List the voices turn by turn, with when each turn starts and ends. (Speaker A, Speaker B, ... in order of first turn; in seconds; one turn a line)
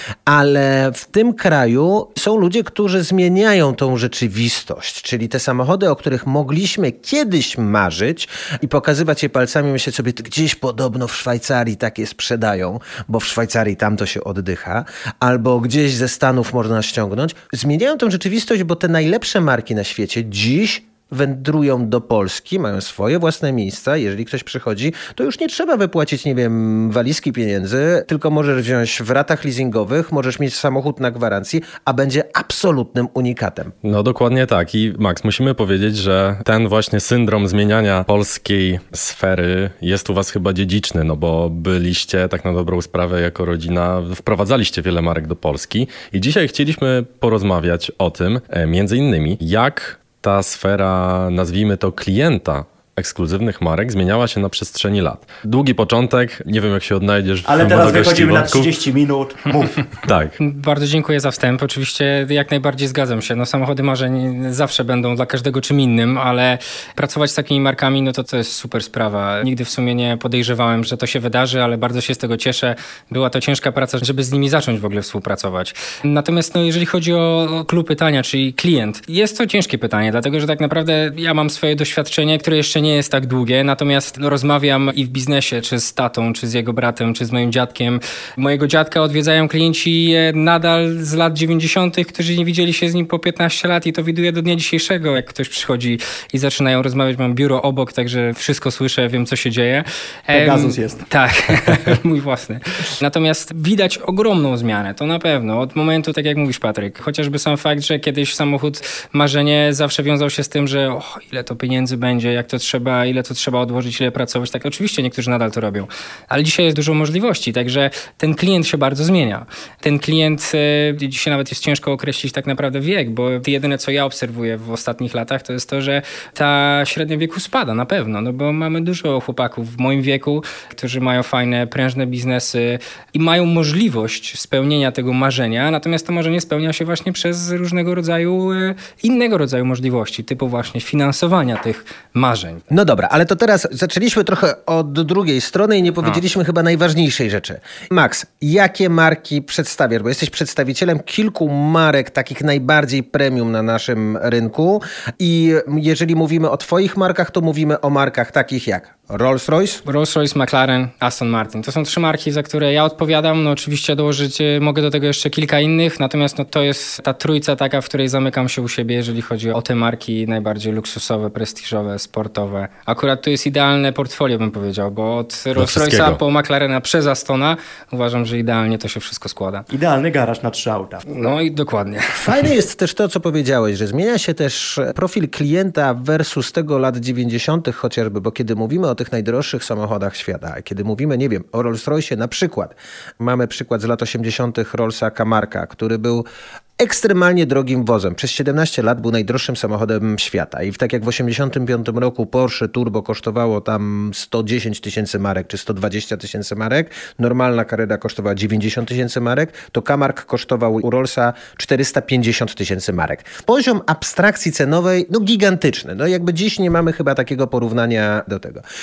Speaker A: 0.2-33.7
Speaker B: 33.8-58.7
Speaker C: 57.4-59.8
Speaker B: 59.9-60.4
Speaker D: 60.4-142.6
Speaker C: 100.3-101.0
Speaker A: 142.7-159.8
Speaker D: 159.8-179.7
Speaker B: 175.6-176.2
Speaker C: 179.7-181.0
Speaker D: 181.0-182.2
Speaker A: 182.2-196.2
Speaker A: 196.8-218.6